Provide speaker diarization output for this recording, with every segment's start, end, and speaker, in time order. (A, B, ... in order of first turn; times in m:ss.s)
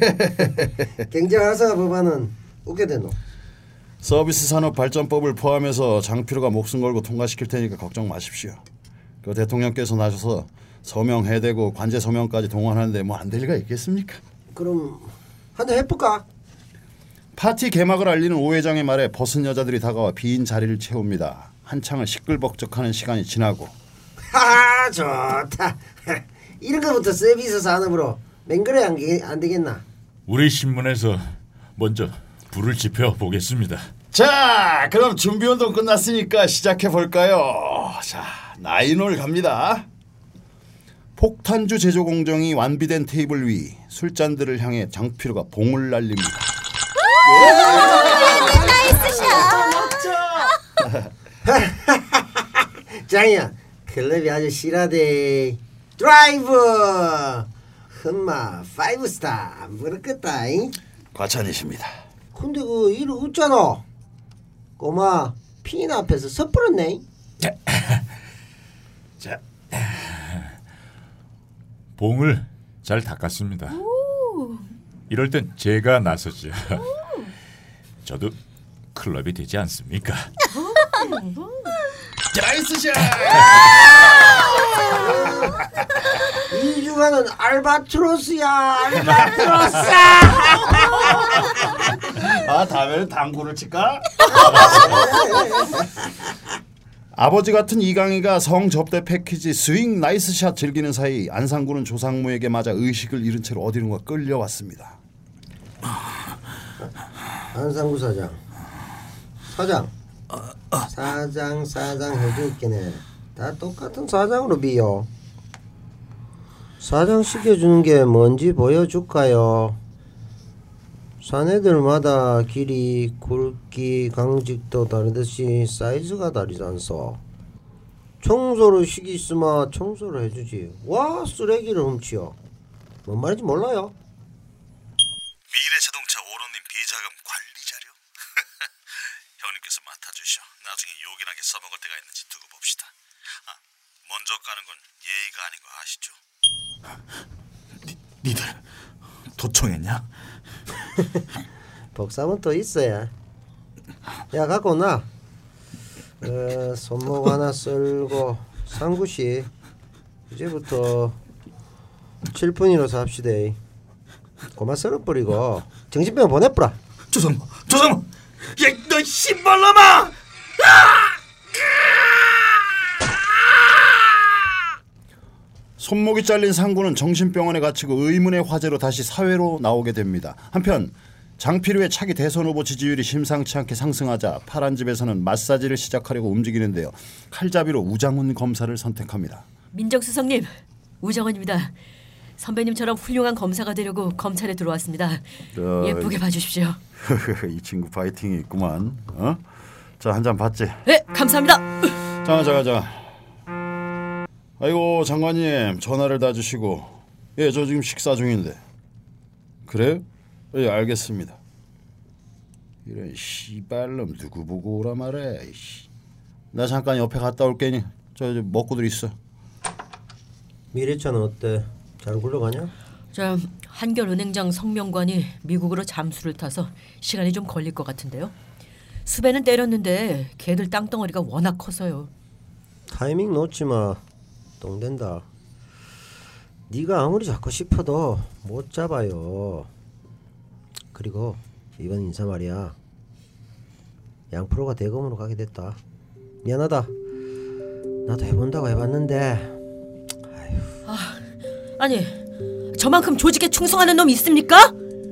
0:00.2-0:03.2 A
0:04.0-0:08.6 B
0:09.2-0:14.2 B
0:14.5-0:16.2 A
0:17.4-0:23.7 B
0:24.3-0:29.8 A
0:30.3-0:33.9 C
0:34.1-0:39.9 B
0:41.2-0:46.5 B
0:47.3-0:50.6 A
0:47.3-0:50.0 B
0:51.4-1:00.8 A
1:01.1-1:02.0 B
1:02.3-1:03.8 A
1:04.8-1:07.0 A
1:12.0-1:13.8 C
1:13.7-1:14.7 D
1:15.1-1:16.9 C
1:17.0-1:17.3 D
1:18.0-1:18.4 C
1:18.9-1:20.3 C
1:20.5-1:21.8 D
1:22.3-1:25.2 B
1:24.9-1:25.7 A
1:26.5-1:31.5 A
1:29.0-1:35.4 B
1:34.3-1:36.0 A
1:37.1-1:45.0 B
1:47.5-1:48.4 A
1:49.5-1:49.9 A
1:50.8-1:55.1 A
1:56.8-1:59.8 A
2:01.2-2:07.2 A
2:08.2-2:12.4 A
2:13.1-2:14.0 A
2:15.5-2:18.0 E
2:19.4-2:22.9 E
2:23.5-2:26.2 E
2:27.9-2:28.6 E
2:29.4-2:30.1 E
2:32.0-2:33.1 A
2:34.3-2:35.1 A
2:36.2-2:39.5 A
2:40.3-2:41.2 A
2:42.3-2:43.6 A
2:44.6-2:46.8 A
2:47.1-2:51.1 E
2:55.8-3:09.4 B
3:09.7-3:11.8 D
3:12.4-3:15.3 D
3:15.5-3:16.2 B
3:15.8-3:16.8 D
3:17.0-3:19.4 B
3:20.0-3:20.8 B
3:20.9-3:22.0 D
3:22.2-3:23.1 B
3:24.6-3:28.6 B
3:29.7-3:31.4 B
3:32.8-3:35.9 B
3:36.5-3:39.2 B
3:40.7-3:42.7 A
3:43.1-3:48.3 D
3:49.1-3:52.1 D
3:52.9-3:54.0 A
3:54.6-3:55.3 A
3:56.7-3:59.7 A
4:00.9-4:02.8 A
4:04.3-4:05.8 A
4:06.4-4:06.9 A
4:08.1-4:09.6 A
4:10.3-4:10.7 A
4:10.9-4:11.2 D
4:11.8-4:14.8 D